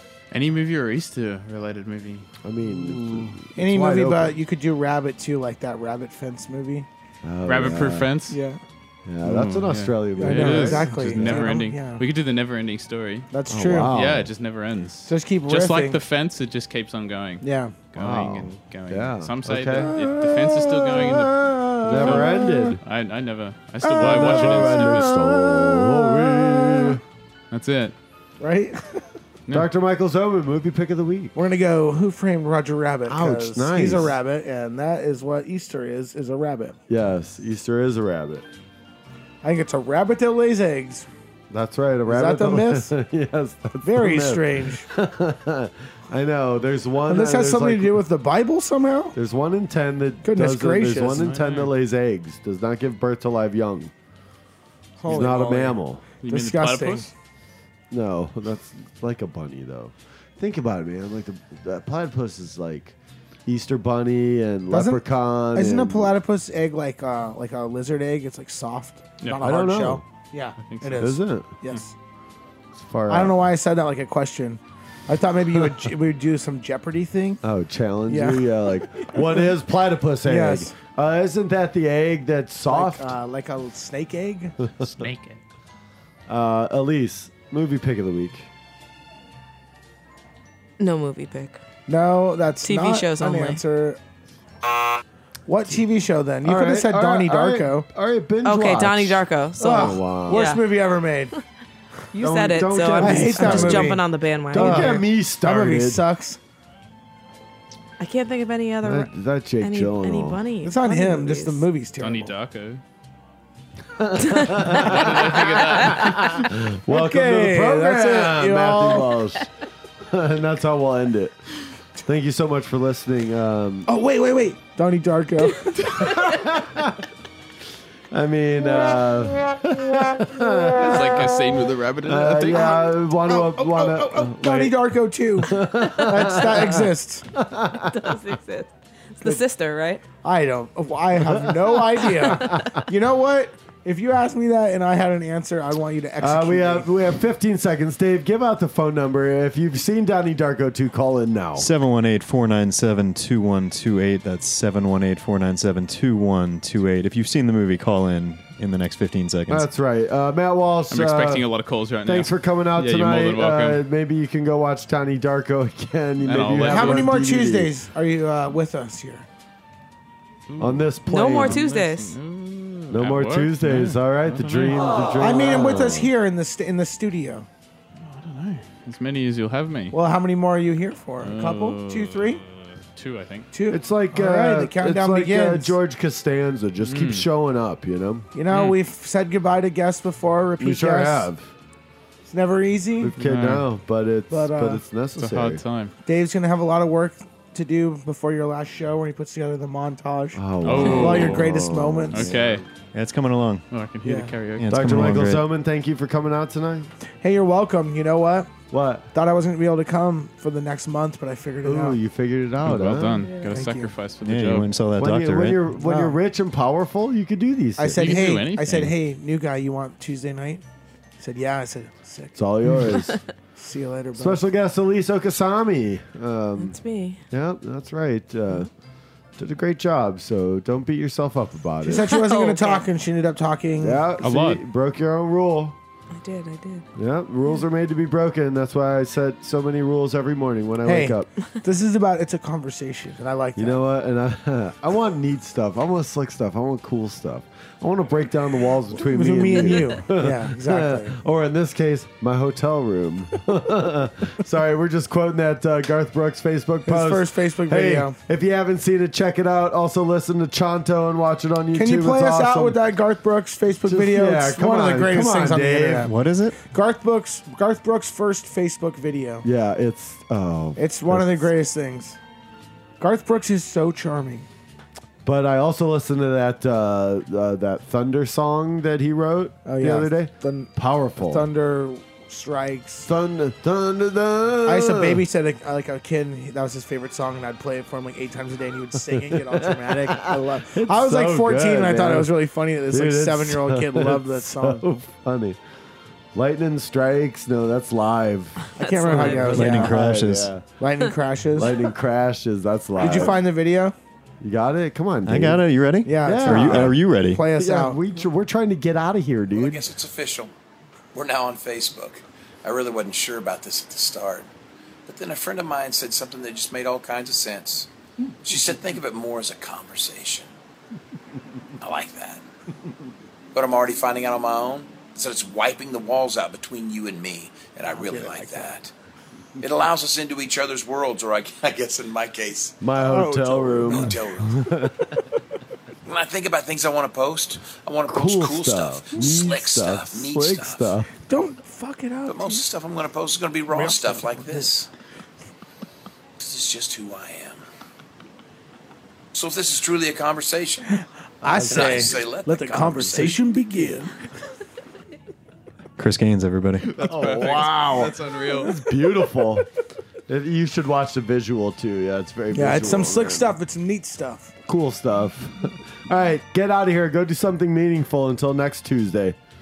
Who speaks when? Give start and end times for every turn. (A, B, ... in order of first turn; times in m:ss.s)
0:00.3-0:02.3 A
0:02.4-0:04.4 B
0:03.6-0:06.9 C
0:07.2-0:08.1 B
0:07.4-0:08.4 A
0:08.3-0:08.6 C
0:09.1-0:11.6 B
0:09.2-0:13.3 A
0:10.2-0:12.0 C
0:13.3-0:13.9 C
0:13.5-0:14.3 B
0:13.8-0:25.1 A
0:15.1-0:16.0 C
0:17.4-0:17.8 C
0:18.0-0:22.8 B
0:23.8-0:27.0 B
0:24.0-0:26.1 C
0:27.5-0:28.0 A
0:28.4-0:29.0 C
0:29.5-0:31.4 B
0:31.4-0:36.8 C
0:33.0-0:34.2 B
0:36.9-0:38.5 B
0:39.4-0:41.1 C
0:41.5-0:48.0 B
0:42.1-0:42.9 C
0:43.8-0:44.9 C
0:47.1-0:49.2 C
0:49.1-0:53.9 B
0:50.2-0:51.3 C
0:51.2-0:51.7 A
0:55.0-0:57.1 C
0:55.0-0:56.0 B
0:56.2-0:57.1 A
0:57.9-1:03.0 B
1:03.5-1:06.1 B
1:04.7-1:05.0 C
1:05.5-1:11.9 C
1:09.4-1:10.0 B
1:10.6-1:11.1 A
1:11.0-1:11.5 B
1:12.8-1:13.4 B
1:13.1-1:17.4 C
1:17.4-1:23.2 B
1:18.1-1:19.5 C
1:20.2-1:20.7 C
1:22.7-1:24.6 C
1:24.8-1:25.1 B
1:24.8-1:25.4 A
1:26.3-1:28.5 B
1:30.8-1:31.6 D
1:31.9-1:34.0 C
1:32.6-1:33.6 D
1:35.5-1:37.9 C
1:36.4-1:40.5 B
1:38.4-1:40.6 D
1:39.6-1:41.3 C
1:42.1-1:45.0 D
1:42.2-1:46.0 B
1:42.8-1:46.4 C
1:48.0-1:51.7 D
1:48.8-1:50.5 B
1:50.6-1:52.4 C
1:52.0-1:52.8 A
1:53.9-1:59.5 B
1:54.4-1:54.8 D
1:54.6-1:56.4 A
1:56.9-1:59.1 C
2:00.0-2:01.4 B
2:02.0-2:03.9 B
2:03.9-2:06.4 C
2:06.0-2:07.0 B
2:08.1-2:11.5 B
2:10.8-2:12.9 A
2:12.0-2:14.8 B
2:12.6-2:17.3 C
2:15.4-2:18.1 B
2:17.8-2:20.0 D
2:20.2-2:26.9 C
2:21.2-2:22.9 B
2:26.2-2:31.7 B
2:31.6-2:39.7 E
2:39.5-2:41.5 B
2:40.9-2:43.8 A
2:42.0-2:47.7 B
2:46.2-2:47.1 A
2:46.6-2:49.3 C
2:50.5-2:55.2 A
2:50.6-2:51.6 B
2:51.1-2:52.2 D
2:52.9-2:56.1 B
2:55.2-2:57.5 C
2:58.0-3:00.0 A
2:59.9-3:02.4 C
3:01.2-3:03.5 A
3:03.5-3:05.8 C
3:03.7-3:08.3 B
3:06.8-3:07.3 A
3:08.3-3:11.3 C
3:08.5-3:08.8 A
3:10.6-3:11.5 B
3:12.3-3:13.1 C
3:13.0-3:15.6 B
3:13.2-3:13.7 A
3:14.3-3:14.8 C
3:15.2-3:16.0 A
3:16.1-3:22.4 C
3:20.4-3:22.6 B
3:20.6-3:21.6 A
3:22.1-3:22.6 A
3:22.9-3:23.6 E
3:23.7-3:25.2 A
3:24.0-3:24.4 C
3:24.6-3:25.5 E
3:24.7-3:26.9 B
3:27.2-3:28.5 C
3:28.7-3:29.1 B
3:29.1-3:32.0 C
3:31.6-3:33.3 B
3:32.6-3:34.8 A
3:33.5-3:33.9 C
3:34.2-3:35.7 E
3:35.0-3:38.1 B
3:35.8-3:36.2 C
3:37.8-3:40.6 C
3:37.9-3:39.0 A
3:41.2-3:42.4 C
3:42.4-3:43.2 B
3:43.6-3:44.4 C
3:44.2-3:46.8 B
3:46.6-3:47.2 D
3:47.3-3:48.7 B
3:49.4-3:52.2 B
3:51.8-3:54.0 C
3:52.0-3:52.9 D
3:53.8-3:55.8 B
3:54.2-3:54.6 A
3:56.1-3:56.9 D
3:57.0-4:01.3 B
4:00.8-4:03.8 C
4:03.6-4:22.8 B
4:09.0-4:11.2 C
4:16.9-4:18.2 C
4:21.7-4:29.4 C
4:23.8-4:26.1 B
4:26.0-4:26.6 E
4:29.4-4:31.5 B
4:30.8-4:32.2 C
4:33.0-4:34.5 C
4:35.2-4:41.5 B
4:39.6-4:40.7 C
4:41.2-4:43.1 C
4:43.0-4:45.2 B
4:44.7-4:54.9 C
4:49.1-4:55.6 B
4:56.3-5:00.6 B
4:58.8-5:00.0 C
4:58.8-4:59.8 D
4:59.5-5:00.6 E
5:00.8-5:01.8 C
5:01.5-5:03.4 B
5:03.0-5:04.0 C
5:04.4-5:05.6 B
5:05.3-5:07.4 E
5:06.0-5:08.0 C
5:06.2-5:09.9 B
5:09.5-5:10.5 F
5:11.1-5:14.5 F
5:15.1-5:17.9 F
5:18.4-5:20.5 F
5:21.8-5:22.4 F
5:23.5-5:28.9 F
5:27.9-5:28.7 C
5:29.6-5:32.9 F
5:32.8-5:35.2 B
5:33.0-5:34.4 C
5:33.8-5:34.6 F
5:36.1-5:41.0 F
5:38.1-5:41.1 B
5:41.3-5:42.6 C
5:42.3-5:44.9 F
5:43.7-5:44.7 C
5:46.4-5:47.6 F
5:49.3-5:50.9 F
5:51.4-5:54.1 C
5:51.4-5:52.2 B
5:51.5-5:53.5 F
5:56.0-5:57.1 E
5:56.9-5:58.8 A
5:57.0-5:59.7 B
6:00.3-6:03.6 B
6:02.5-6:04.5 C
6:04.7-6:09.4 B